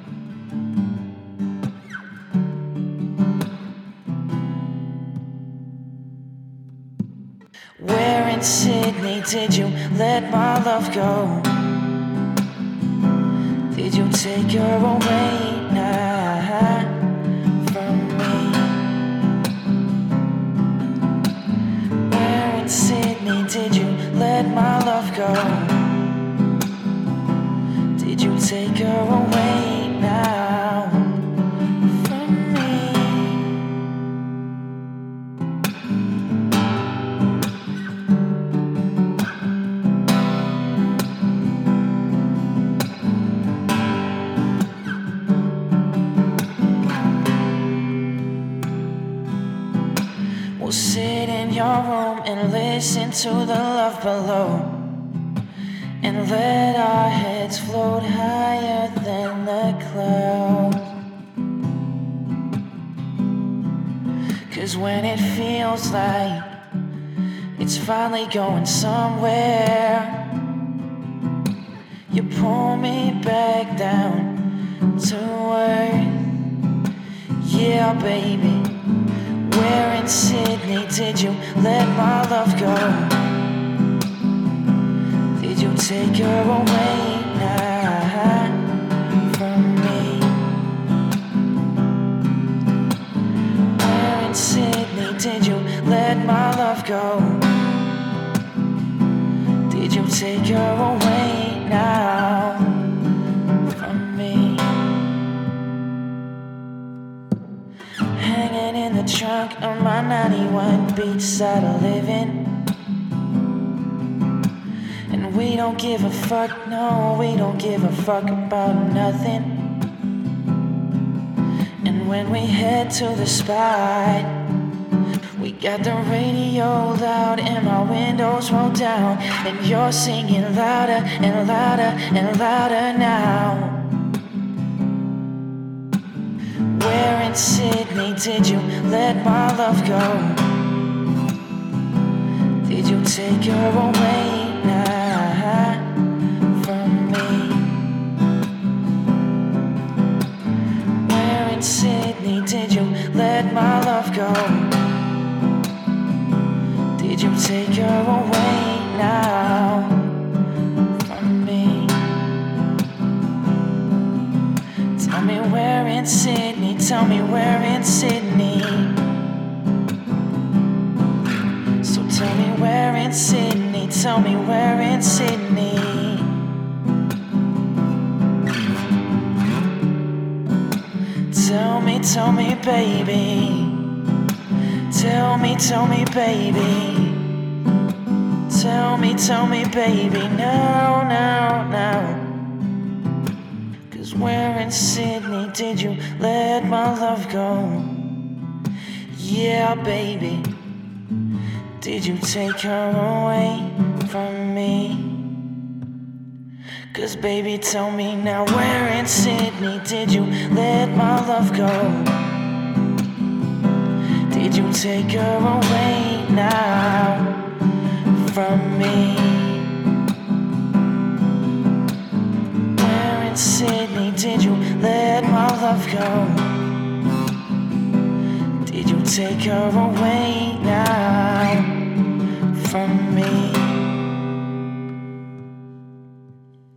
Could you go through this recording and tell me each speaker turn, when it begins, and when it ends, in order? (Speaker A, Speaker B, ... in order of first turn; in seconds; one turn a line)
Speaker A: 7.8-11.7
Speaker A: 13.7-19.0
Speaker A: 22.1-26.0
Speaker A: 27.9-31.2
Speaker A: 31.9-33.5
Speaker A: 50.6-55.0
Speaker A: 56.0-60.9
Speaker A: 64.5-66.6
Speaker A: 67.6-70.3
Speaker A: 72.1-76.2
Speaker A: 77.4-78.8
Speaker A: 79.4-83.3
Speaker A: 85.3-88.7
Speaker A: 89.2-90.4
Speaker A: 93.8-97.5
Speaker A: 99.7-102.9
Speaker A: 103.7-104.8
Speaker A: 108.1-112.6
Speaker A: 115.1-119.8
Speaker A: 121.8-124.4
Speaker A: 125.4-133.8
Speaker A: 136.7-140.5
Speaker A: 142.6-146.0
Speaker A: 146.5-147.8
Speaker A: 151.0-154.8
Speaker A: 157.0-160.2
Speaker A: 161.0-162.0
Speaker A: 165.0-169.0
Speaker A: 171.8-176.3
Speaker A: 181.3-183.9
Speaker A: 184.9-187.3
Speaker A: 188.5-192.2
Speaker A: 193.9-198.2
Speaker A: 199.1-200.6
Speaker A: 201.8-205.2
Speaker A: 206.9-212.2
Speaker A: 214.3-217.4
Speaker A: 218.2-219.7
Speaker A: 222.8-226.7
Speaker A: 228.6-231.9
Speaker A: 232.5-233.9